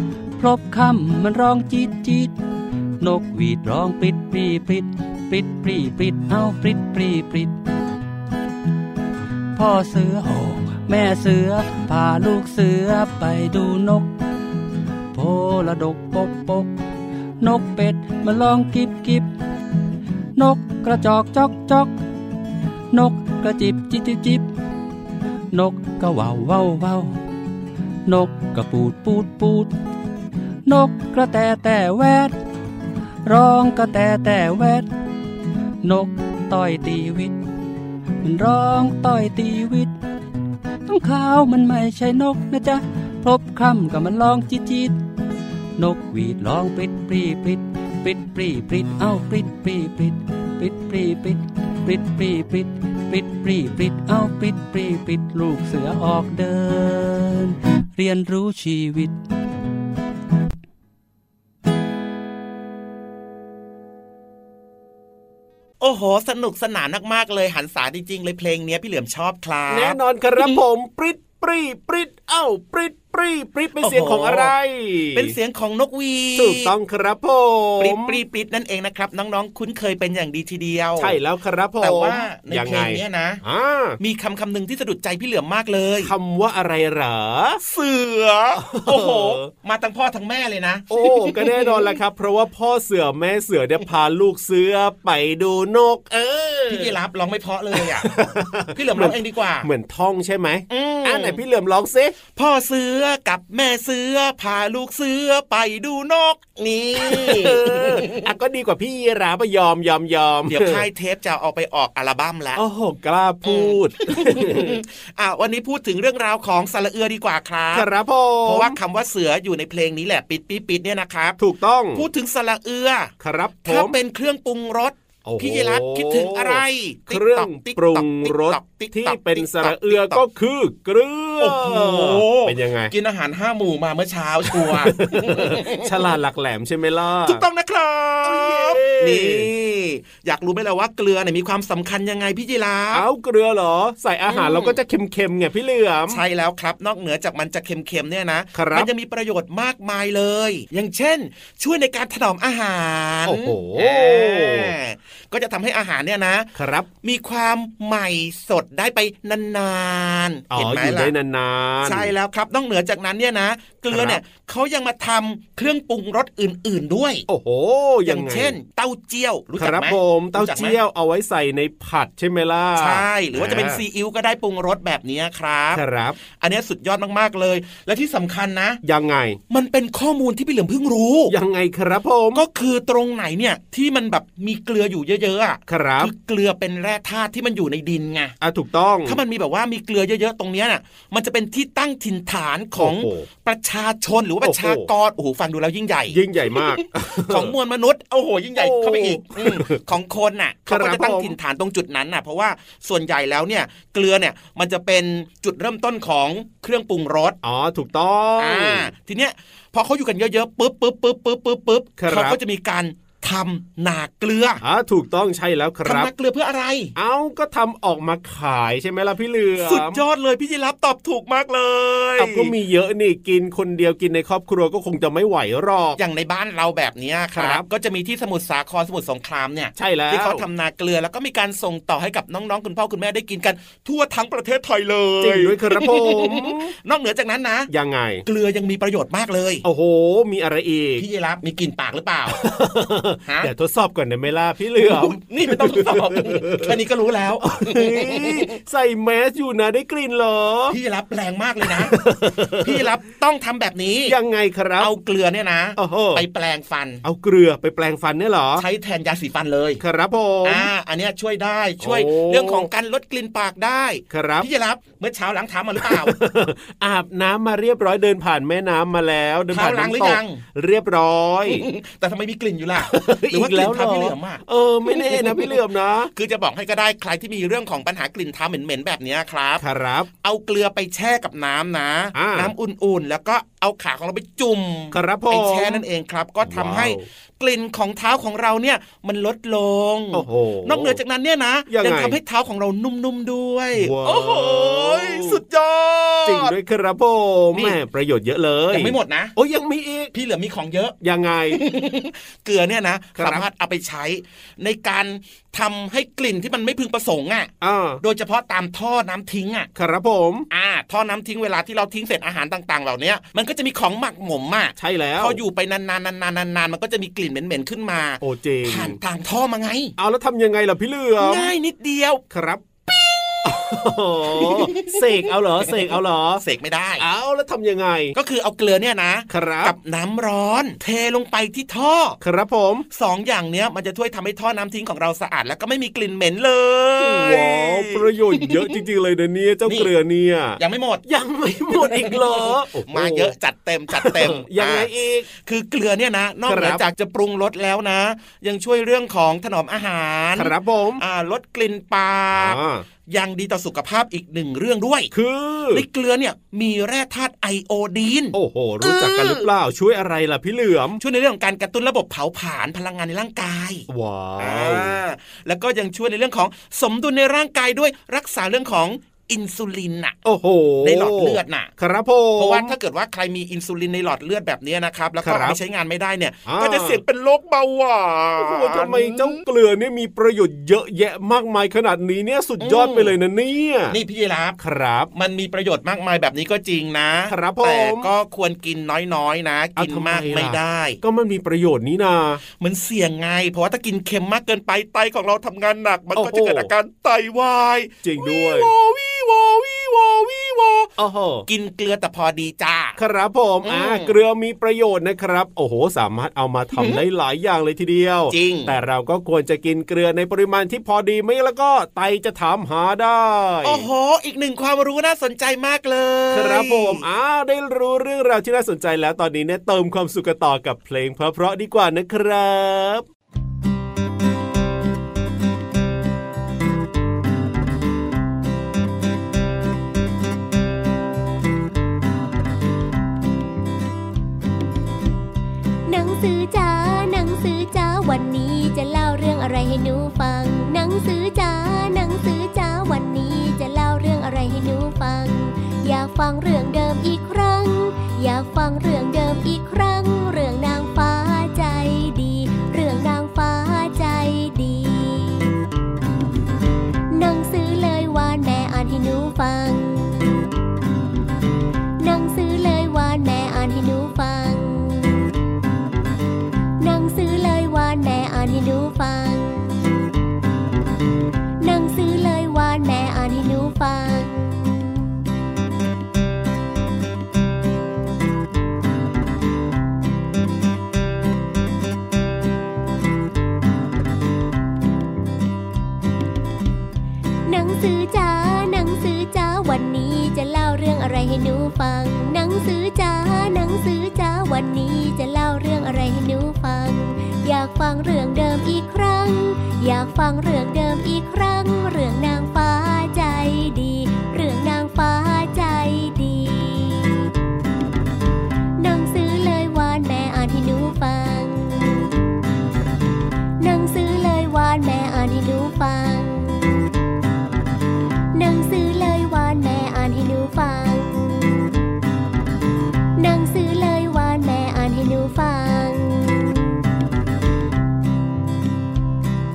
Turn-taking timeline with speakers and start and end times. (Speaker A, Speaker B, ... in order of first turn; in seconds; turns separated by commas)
Speaker A: 0.4-2.3, Speaker A: 3.0-7.5, Speaker A: 9.5-14.1, Speaker A: 15.1-16.7, Speaker A: 17.4-19.3, Speaker A: 20.4-21.9, Speaker A: 22.9-24.5, Speaker A: 25.5-27.1, Speaker A: 28.1-29.7, Speaker A: 30.6-32.4, Speaker A: 33.2-34.9, Speaker A: 35.8-37.4, Speaker A: 38.2-39.9, Speaker A: 40.9-45.0, Speaker A: 45.8-59.1, Speaker B: 65.8-70.6, Speaker C: 69.7-75.3, Speaker B: 73.8-74.5, Speaker B: 75.1-76.7, Speaker C: 76.4-78.2, Speaker B: 77.8-81.2, Speaker C: 81.0-84.0, Speaker B: 81.8-83.4, Speaker B: 84.0-86.1, Speaker C: 86.0-87.6, Speaker B: 87.6-91.9, Speaker C: 88.6-89.5, Speaker C: 90.9-97.0, Speaker B: 96.7-98.1, Speaker C: 97.7-102.2, Speaker B: 98.7-99.7, Speaker B: 100.7-101.4, Speaker B: 102.3-108.2, Speaker C: 107.0-110.8, Speaker B: 110.5-112.6, Speaker C: 112.5-114.8, Speaker B: 113.5-117.9, Speaker C: 117.7-118.8, Speaker B: 118.4-121.4, Speaker C: 121.4-122.1, Speaker B: 121.9-123.1, Speaker C: 123.2-123.9, Speaker B: 123.6-130.2, Speaker C: 125.2-132.9, Speaker B: 131.4-135.9, Speaker C: 134.5-137.4, Speaker B: 137.2-143.0, Speaker C: 138.2-139.5, Speaker C: 142.9-146.2, Speaker B: 144.3-144.8, Speaker B: 146.1-156.5, Speaker C: 148.5-148.9, Speaker C: 153.2-154.7, Speaker C: 156.6-156.9, Speaker B: 157.0-161.1, Speaker C: 160.5-162.1, Speaker B: 161.8-167.2, Speaker C: 163.9-164.2, Speaker C: 167.3-168.5, Speaker B: 168.1-170.8, Speaker C: 169.6-173.8, Speaker B: 172.8-178.8, Speaker C: 175.7-176.2, Speaker C: 178.8-179.4, Speaker B: 179.5-181.3, Speaker C: 181.3-182.4, Speaker B: 182.3-188.3, Speaker C: 185.7-186.1, Speaker C: 188.4-189.2, Speaker B: 189.0-207.4, Speaker C: 192.8-193.3, Speaker C: 194.4-194.9, Speaker C: 196.1-197.5, Speaker C: 198.6-199.8, Speaker C: 200.7-201.4, Speaker C: 207.4-208.9, Speaker B: 208.4-214.6, Speaker C: 212.0-212.4, Speaker C: 214.6-216.1, Speaker B: 215.8-216.9, Speaker C: 217.0-220.0, Speaker B: 219.6-222.5, Speaker C: 222.2-226.0, Speaker B: 226.0-237.7, Speaker C: 227.3-227.7, Speaker C: 229.8-230.4, Speaker C: 235.2-236.7, Speaker C: 237.7-238.2, Speaker B: 238.2-239.6, Speaker C: 239.6-241.0, Speaker B: 241.0-242.4, Speaker C: 242.3-246.7, Speaker B: 243.2-243.5, Speaker B: 244.8-248.5, Speaker C: 247.4-250.8, Speaker B: 250.7-252.0, Speaker C: 251.6-252.9, Speaker B: 252.6-254.1, Speaker C: 254.1-254.9, Speaker B: 254.8-257.0, Speaker C: 255.8-256.2, Speaker C: 257.0-258.6, Speaker B: 258.6-259.8, Speaker C: 259.8-260.7, Speaker B: 260.4-266.1, Speaker C: 261.8-262.7, Speaker C: 264.1-264.5, Speaker C: 265.8-271.6, Speaker B: 269.5-270.4, Speaker B: 271.5-275.5, Speaker C: 272.8-276.1, Speaker B: 276.1-279.6, Speaker C: 279.6-280.1, Speaker B: 280.2-296.5, Speaker C: 282.1-282.5, Speaker C: 284.9-285.8, Speaker C: 286.4-287.0, Speaker C: 290.1-291.0, Speaker C: 291.7-292.2, Speaker C: 293.8-295.4, Speaker C: 296.2-300.1, Speaker B: 298.7-299.3, Speaker B: 300.1-301.0, Speaker C: 301.0-301.6, Speaker B: 301.5-309.7, Speaker C: 303.1-303.4, Speaker C: 307.6-308.0, Speaker C: 309.8-310.5, Speaker B: 310.5-319.9, Speaker C: 314.8-315.4, Speaker C: 318.2-319.0, Speaker C: 320.0-321.5, Speaker B: 321.2-322.2, Speaker C: 322.3-322.8, Speaker B: 322.9-323.5, Speaker C: 323.4-326.4, Speaker B: 324.3-325.0, Speaker B: 326.4-327.0, Speaker C: 327.0-328.1, Speaker B: 328.1-332.2, Speaker C: 329.3-329.8, Speaker C: 332.2-332.9, Speaker B: 332.9-338.7, Speaker C: 337.0-343.3, Speaker B: 339.6-339.9, Speaker B: 340.6-341.0, Speaker B: 341.8-355.1, Speaker C: 343.9-345.3, Speaker C: 346.5-346.8, Speaker C: 350.4-351.0, Speaker C: 352.3-352.9, Speaker C: 355.1-355.9, Speaker B: 355.7-359.5, Speaker C: 358.3-361.0, Speaker B: 361.0-363.9, Speaker C: 363.9-365.0, Speaker B: 364.4-370.2, Speaker C: 370.2-372.8, Speaker B: 370.8-371.7, Speaker B: 372.4-379.4, Speaker C: 375.2-375.6, Speaker C: 376.5-377.0, Speaker C: 378.4-384.0, Speaker B: 382.6-383.1, Speaker B: 383.9-384.6, Speaker C: 384.6-385.1, Speaker B: 385.1-391.0, Speaker C: 387.3-388.1, Speaker C: 389.8-392.4, Speaker B: 392.6-400.9, Speaker C: 396.2-396.7, Speaker C: 398.0-398.7, Speaker C: 401.0-401.4, Speaker B: 401.5-403.0, Speaker C: 403.0-413.9, Speaker B: 403.6-404.1, Speaker B: 408.3-408.8, Speaker B: 413.6-417.0, Speaker C: 416.3-423.1, Speaker D: 435.9-455.5, Speaker D: 457.1-460.4, Speaker D: 462.0-465.3, Speaker D: 466.8-469.8, Speaker D: 471.6-475.0, Speaker D: 487.5-507.3, Speaker D: 508.8-512.1, Speaker D: 513.6-516.8, Speaker D: 518.3-521.7, Speaker D: 523.2-526.5